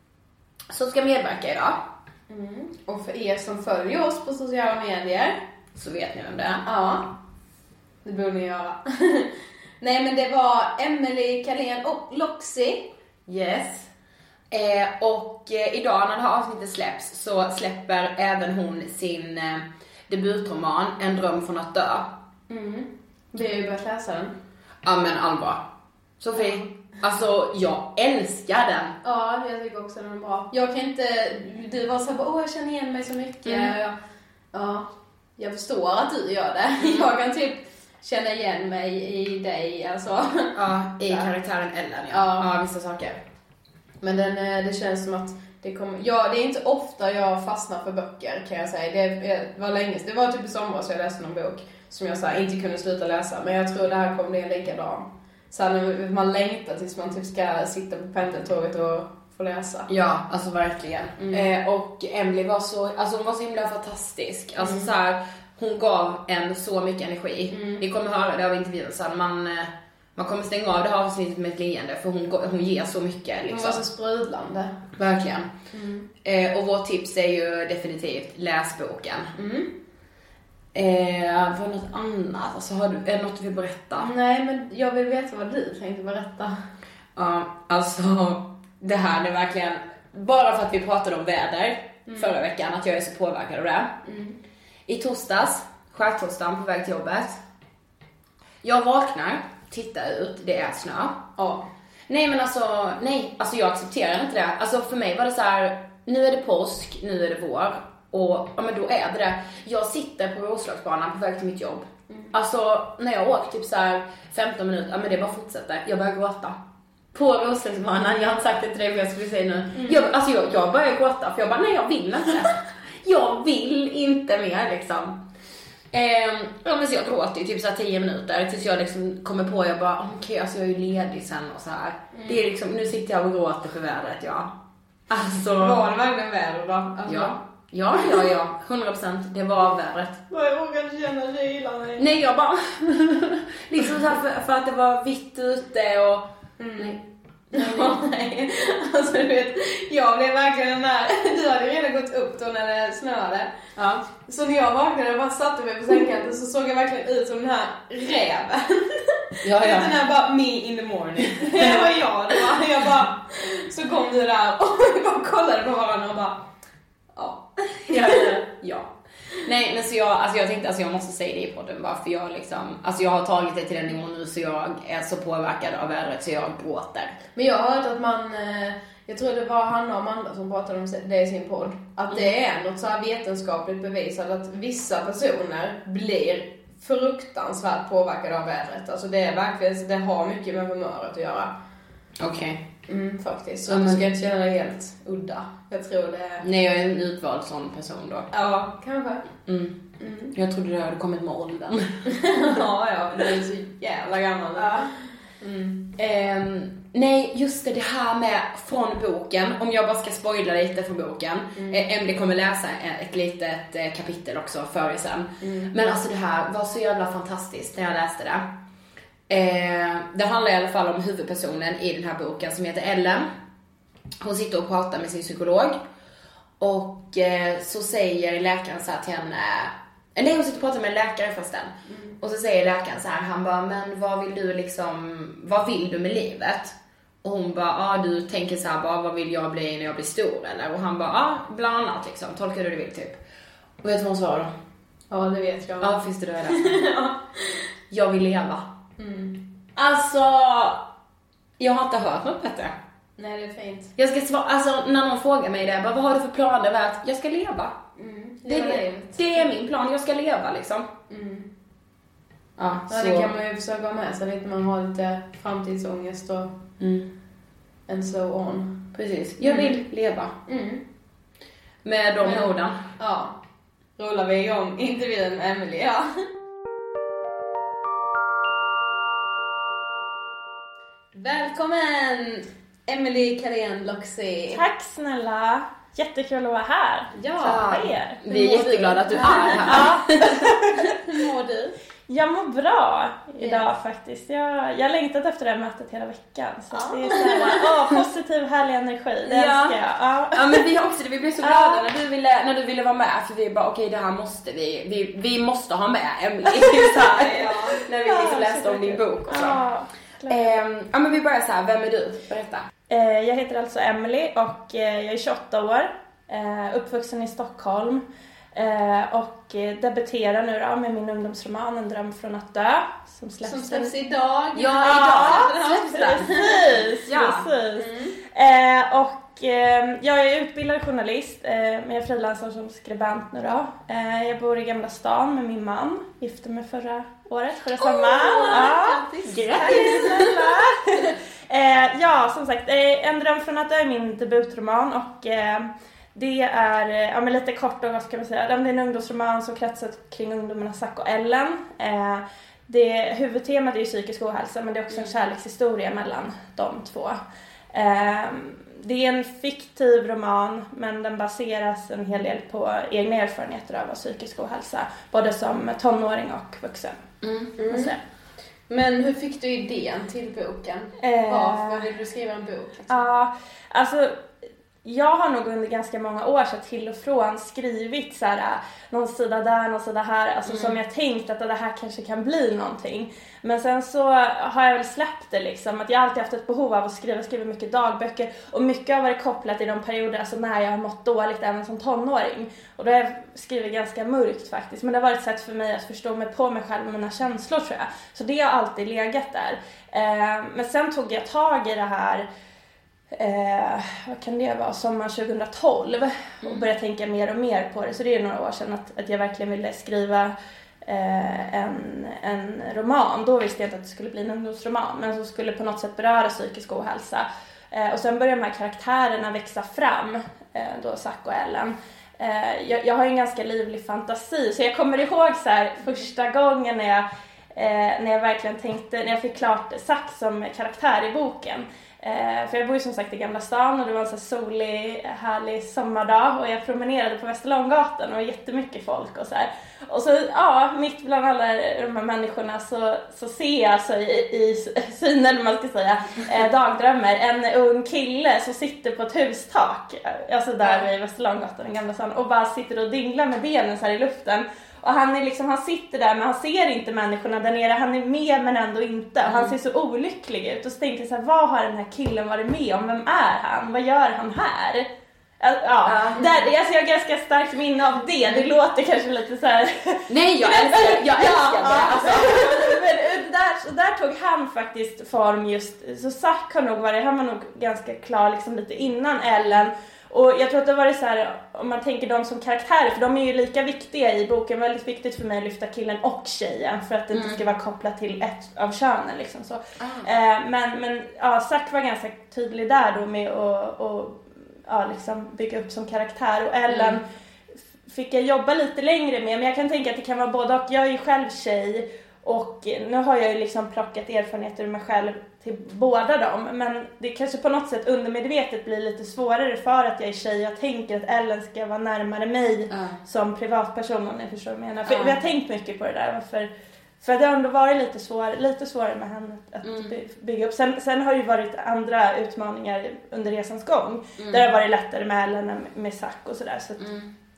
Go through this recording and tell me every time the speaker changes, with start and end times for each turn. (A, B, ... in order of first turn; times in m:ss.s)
0:00.7-0:01.8 A
0:02.3-0:05.4 B
0:05.7-0:06.6 A
0:06.6-0:07.2 B
0:08.0-0:12.9 B
0:13.3-0:13.9 A
0:14.5-0:22.1 A
0:22.5-0:24.4 B
0:24.8-0:25.6 A
0:26.2-0:29.0 A
0:26.4-0:26.7 B
0:29.0-0:34.0 B
0:33.4-0:33.8 A
0:34.5-0:41.3 B
0:36.8-0:37.1 A
0:40.5-0:43.2 A
0:42.1-0:42.5 B
0:44.0-0:59.9 B
0:59.9-1:13.8 A
1:01.2-1:01.5 B
1:04.6-1:04.9 B
1:07.5-1:07.8 B
1:13.5-1:14.9 B
1:15.0-1:15.5 A
1:15.7-1:16.1 B
1:16.2-1:19.3 A
1:19.4-1:19.7 B
1:20.7-1:24.1 A
1:24.0-1:26.6 B
1:27.2-1:34.0 A
1:32.1-1:32.4 B
1:34.0-1:34.4 B
1:34.9-1:37.4 A
1:38.6-1:41.3 A
1:41.4-1:41.7 B
1:42.1-1:56.6 A
1:57.1-2:05.2 A
1:59.7-2:00.1 B
2:05.9-2:14.5 A
2:12.1-2:12.4 B
2:15.1-2:20.2 A
2:15.6-2:17.4 B
2:20.3-2:22.1 B
2:22.0-2:28.3 A
2:26.6-2:27.0 B
2:27.5-2:33.5 B
2:34.2-2:46.4 B
2:39.4-2:40.1 A
2:41.2-2:41.8 A
2:47.2-2:48.5 B
2:47.9-2:57.2 A
2:57.3-3:11.5 B
3:12.2-3:12.7 A
3:12.9-3:14.2 B
3:13.7-3:15.1 A
3:14.8-3:16.5 B
3:16.4-3:18.3 A
3:18.3-3:19.3 B
3:19.4-3:22.0 A
3:20.0-3:20.3 B
3:22.1-3:23.9 B
3:22.6-3:24.8 A
3:24.5-3:25.8 B
3:25.8-3:38.5 A
3:31.5-3:31.8 B
3:35.4-3:35.7 B
3:39.3-3:43.3 A
3:44.2-3:45.8 A
3:46.6-4:03.2 A
3:51.9-3:52.2 B
4:03.8-4:04.5 A
4:05.1-4:07.2 B
4:05.8-4:06.7 A
4:07.9-4:08.7 A
4:09.0-4:09.5 B
4:09.8-4:10.8 A
4:11.6-4:12.7 A
4:13.2-4:13.9 B
4:14.0-4:17.8 A
4:18.0-4:19.5 B
4:18.4-4:20.9 A
4:21.1-4:21.5 B
4:22.6-4:23.3 A
4:22.9-4:26.6 B
4:26.8-4:27.1 A
4:27.9-4:29.8 B
4:28.9-4:30.3 A
4:30.5-4:30.8 B
4:31.8-4:32.9 A
4:32.2-4:33.4 B
4:34.0-4:36.1 B
4:41.1-4:44.6 B
4:44.5-4:48.2 C
4:47.1-4:47.8 B
4:47.4-4:50.3 A
4:48.3-4:50.0 B
4:49.1-4:50.8 C
4:50.9-4:51.7 B
4:52.1-5:00.6 C
4:53.4-4:53.7 B
4:56.7-4:57.6 B
4:59.2-4:59.8 A
5:00.3-5:09.6 A
5:01.4-5:01.8 C
5:07.3-5:07.8 B
5:08.0-5:10.6 C
5:10.2-5:12.6 A
5:12.9-5:23.9 C
5:23.4-5:26.6 B
5:24.5-5:26.3 A
5:24.8-5:57.2 C
5:27.1-5:27.5 A
5:27.8-5:28.2 B
5:37.8-5:40.6 B
5:57.7-6:07.0 C
6:07.2-6:07.5 A
6:07.6-6:08.0 B
6:07.7-6:08.0 C
6:08.7-6:13.0 B
6:11.0-6:11.9 C
6:12.9-6:14.2 C
6:14.8-6:42.3 C
6:20.5-6:20.8 A
6:43.1-6:50.3 C
6:50.8-7:44.9 C
7:39.3-7:39.5 A
7:45.4-8:17.0 C
7:45.8-7:46.2 A
7:50.1-7:52.8 A
8:07.1-8:07.4 A
8:09.8-8:10.1 A
8:16.7-8:17.0 A
8:17.9-8:36.5 C
8:32.7-8:33.0 A
8:34.9-8:35.2 A
8:37.0-8:46.8 C
8:39.6-8:39.9 A
8:44.2-8:44.4 A
8:46.8-8:47.1 A